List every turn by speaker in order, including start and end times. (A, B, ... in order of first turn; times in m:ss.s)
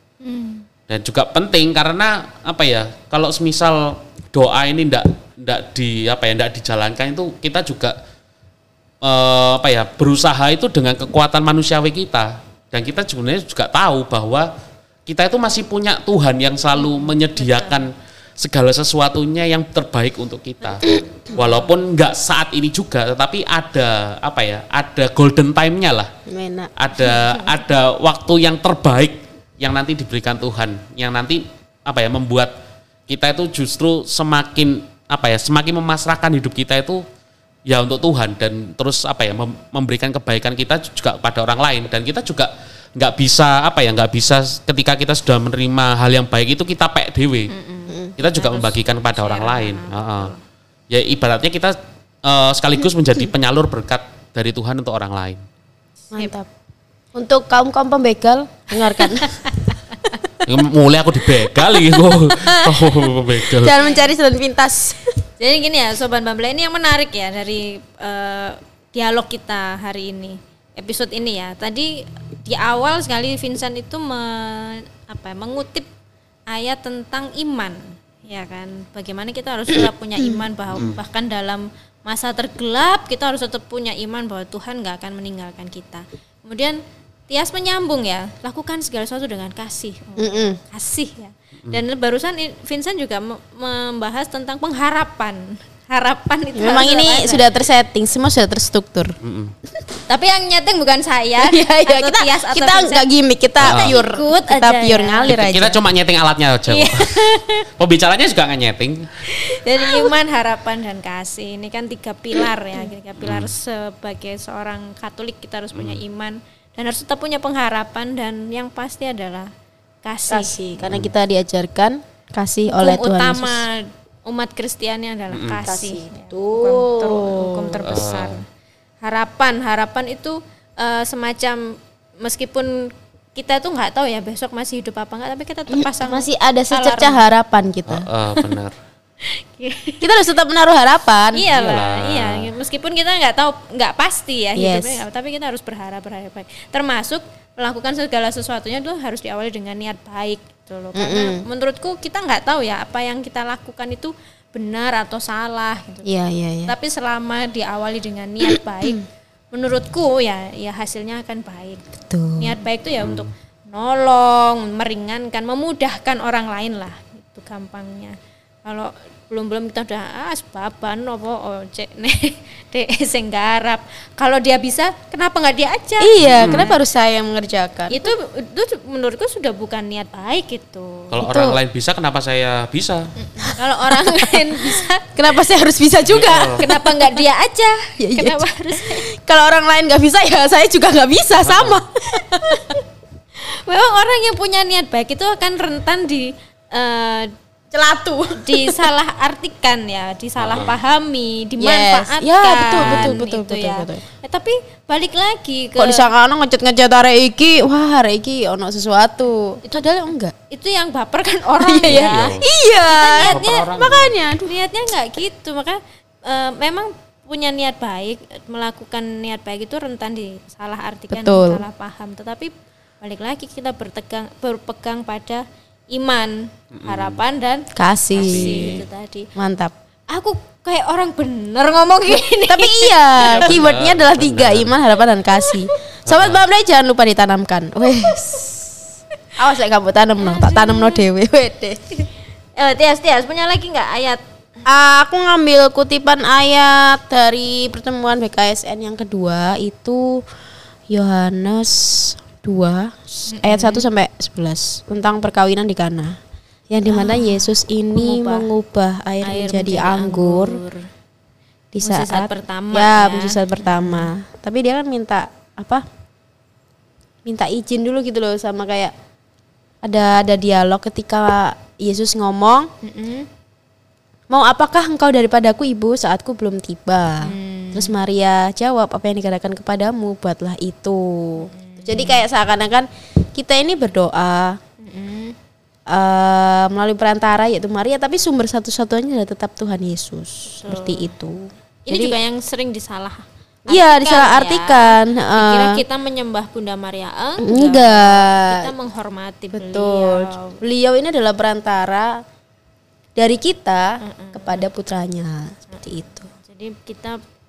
0:00.2-0:00.6 A
0:00.9-0:08.0 B
0:09.0-0:14.5 B
0:15.1-0:26.1 B
0:16.8-0:17.9 A
0:26.3-0:26.7 C
0:26.8-0:32.5 B
0:27.1-0:27.4 A
0:33.1-0:37.0 B
0:37.6-0:47.5 B
0:47.5-0:50.4 A
0:48.2-0:50.3 B
0:50.9-0:55.4 B
0:56.1-0:56.5 C
0:57.1-0:59.3 C
0:59.0-0:59.8 A
1:00.4-1:03.8 B
1:03.5-1:05.1 C
1:03.7-1:04.1 A
1:05.4-1:15.9 A
1:16.5-1:37.4 A
1:30.2-1:30.6 C
1:36.6-1:39.2 C
1:39.2-1:39.5 B
1:40.1-1:43.0 A
1:41.4-1:45.8 C
1:43.6-1:45.3 A
1:43.6-1:44.0 B
1:45.3-1:49.1 B
1:46.7-1:47.6 A
1:49.3-1:59.5 A
1:53.2-1:53.5 B
1:55.8-1:56.0 B
2:00.0-2:00.8 A
2:00.3-2:03.6 C
2:02.7-2:08.4 A
2:05.3-2:05.6 B
2:05.6-2:07.7 C
2:07.8-2:08.4 B
2:09.0-2:17.2 A
2:15.7-2:18.1 C
2:17.9-2:18.7 B
2:19.2-2:20.0 A
2:20.0-2:21.4 C
2:21.3-2:36.0 A
2:21.5-2:22.4 B
2:24.6-2:25.0 C
2:31.0-2:31.4 C
2:36.0-2:36.7 C
2:36.7-2:41.8 A
2:42.0-2:42.6 C
2:42.4-2:56.8 A
2:43.0-2:43.3 B
2:56.0-2:58.1 C
2:56.2-2:56.7 B
2:57.9-3:01.2 A
3:01.1-3:03.1 B
3:01.2-3:01.6 C
3:03.4-3:05.1 A
3:03.4-3:07.2 C
3:06.1-3:06.6 B
3:06.5-3:09.1 A
3:08.0-3:12.6 C
3:11.4-3:11.8 B
3:12.2-3:12.8 A
3:13.4-3:17.3 A
3:17.7-3:18.8 C
3:18.4-3:26.0 A
3:20.4-3:20.7 B
3:21.6-3:24.0 C
3:22.8-3:23.2 B
3:25.8-3:30.3 C
3:30.5-3:33.7 A
3:31.6-3:34.5 C
3:31.8-3:32.4 B
3:33.2-3:34.1 B
3:34.4-3:49.3 A
3:41.1-3:41.6 C
3:46.7-3:47.2 B
3:47.8-3:48.7 C
3:48.2-3:48.8 B
3:49.4-3:49.7 C
3:50.1-3:53.5 A
3:52.4-3:58.6 C
3:53.2-3:54.7 B
3:55.4-3:55.7 A
3:56.1-3:56.4 B
3:59.4-4:01.9 C
4:00.2-4:01.0 A
4:02.6-4:04.2 A
4:04.6-4:10.2 C
4:10.9-4:16.2 C
4:13.3-4:13.8 A
4:16.7-4:20.6 C
4:16.9-4:18.5 A
4:19.2-4:20.9 A
4:21.7-4:25.8 C
4:21.8-4:24.1 A
4:27.2-4:28.9 C
4:29.8-4:32.7 C
4:32.8-4:33.3 A
4:34.3-4:44.6 C
4:37.2-4:37.9 A
4:41.5-4:42.2 A
4:44.8-4:45.3 A
4:45.9-4:52.1 C
4:50.5-4:51.1 A
4:51.9-5:00.6 A
4:53.7-4:55.8 C
4:57.4-4:58.7 C
4:59.5-5:02.2 C
5:03.2-5:06.2 C
5:04.0-5:04.6 A
5:05.7-5:07.2 A